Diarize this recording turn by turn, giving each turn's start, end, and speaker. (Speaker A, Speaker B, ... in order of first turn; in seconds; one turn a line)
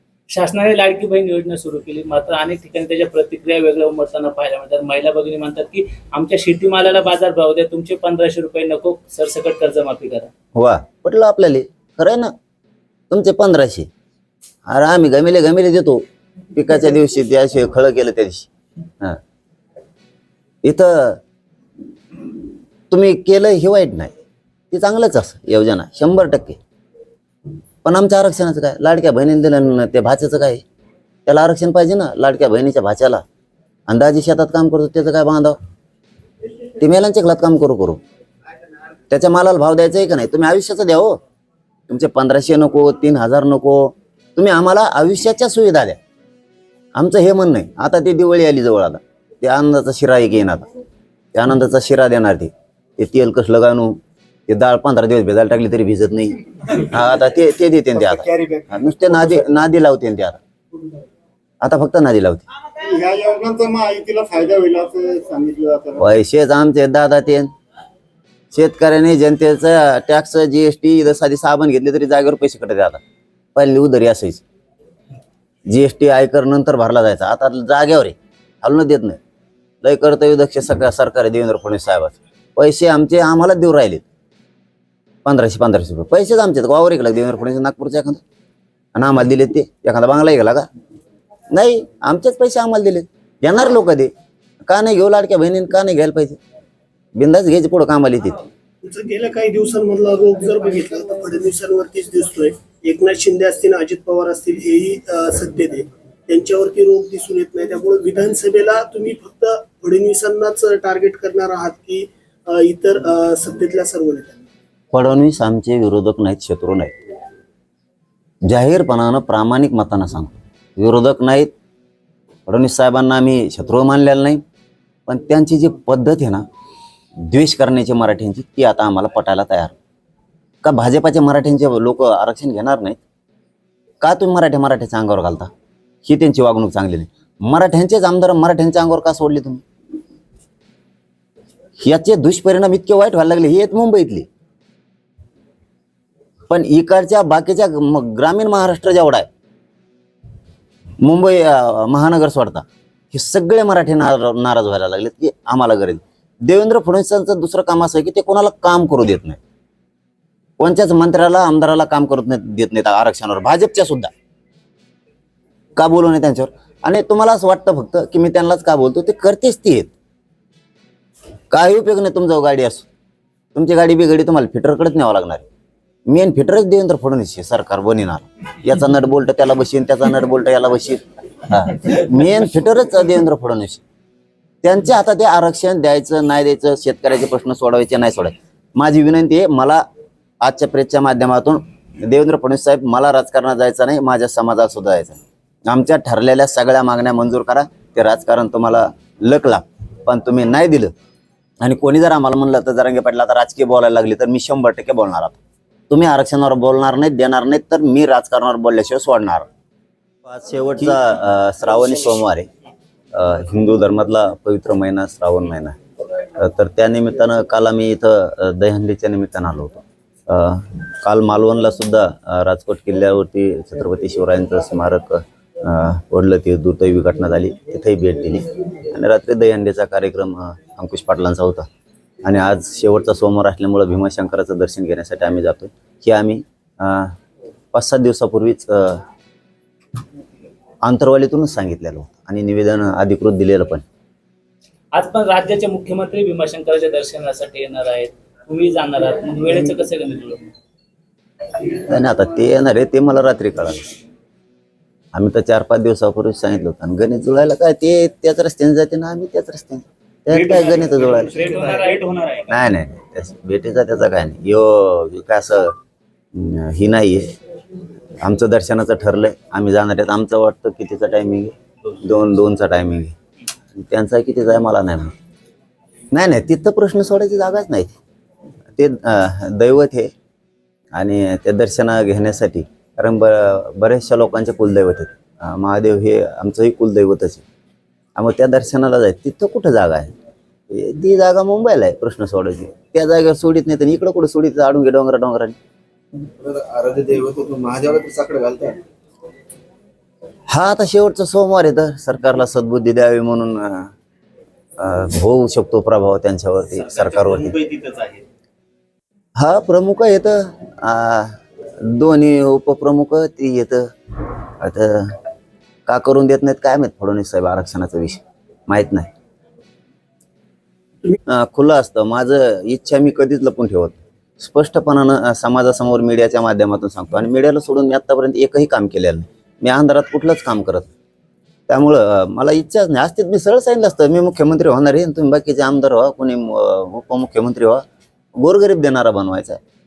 Speaker A: 0.3-10.3
Speaker B: 10.5-12.3
Speaker B: 13.1-13.9
Speaker B: 14.7-18.5
Speaker B: 20.6-21.2
Speaker B: 22.9-24.1
Speaker B: 24.7-26.6
Speaker B: 27.8-30.6
Speaker B: 31.2-33.2
Speaker B: 33.9-35.6
Speaker B: 36.8-38.0
Speaker B: 39.1-41.2
Speaker B: 41.9-46.0
Speaker B: 46.9-50.7
Speaker B: 51.3-60.4
Speaker B: 61.6-62.4
Speaker C: 62.9-65.9
Speaker B: 66.0-67.5
Speaker B: 68.5-73.0
Speaker B: 73.5-74.4
Speaker B: 75.7-79.2
Speaker B: 79.8-84.0
Speaker B: 85.2-88.2
Speaker B: 88.9-90.7
Speaker B: 91.5-94.1
Speaker B: 94.6-96.4
Speaker B: 97.2-98.4
Speaker D: 98.8-114.5
Speaker B: 114.9-116.9
Speaker B: 118.4-121.5
Speaker B: 122.5-124.4
Speaker B: 125.1-126.5
Speaker B: 127.2-129.8
Speaker B: 130.6-133.0
Speaker B: 134.0-135.5
Speaker B: 136.0-139.6
Speaker B: 141.8-144.3
Speaker B: 146.5-149.3
Speaker B: 151.0-159.4
Speaker B: 160.6-164.1
Speaker B: 165.8-169.9
Speaker B: 171.5-172.9
Speaker B: 173.5-175.4
Speaker B: 176.1-183.8
Speaker B: 184.6-189.8
Speaker B: 190.4-200.9
Speaker B: 201.6-205.3
Speaker B: 205.9-209.5
Speaker B: 210.3-212.5
Speaker B: 213.1-215.8
Speaker B: 216.3-231.7
Speaker B: 232.2-237.2
Speaker B: 237.7-239.0
Speaker B: 240.8-243.8
Speaker A: 244.9-250.4
Speaker B: 251.7-253.9
Speaker B: 255.1-261.6
Speaker A: 260.3-262.5
Speaker B: 262.5-265.8
Speaker B: 266.3-267.3
Speaker B: 268.2-273.1
Speaker B: 273.7-275.1
Speaker B: 276.1-277.9
Speaker B: 278.8-280.1
Speaker B: 280.9-287.4
Speaker B: 288.1-290.1
Speaker B: 290.7-295.6
Speaker E: 296.4-298.8
Speaker B: 300.5-303.9
Speaker B: 304.8-307.6
Speaker A: 306.8-308.2
Speaker B: 309.4-313.9
Speaker B: 314.6-315.2
Speaker B: 315.9-319.1
Speaker B: 321.3-330.9
Speaker B: 331.7-337.8
Speaker B: 338.4-339.6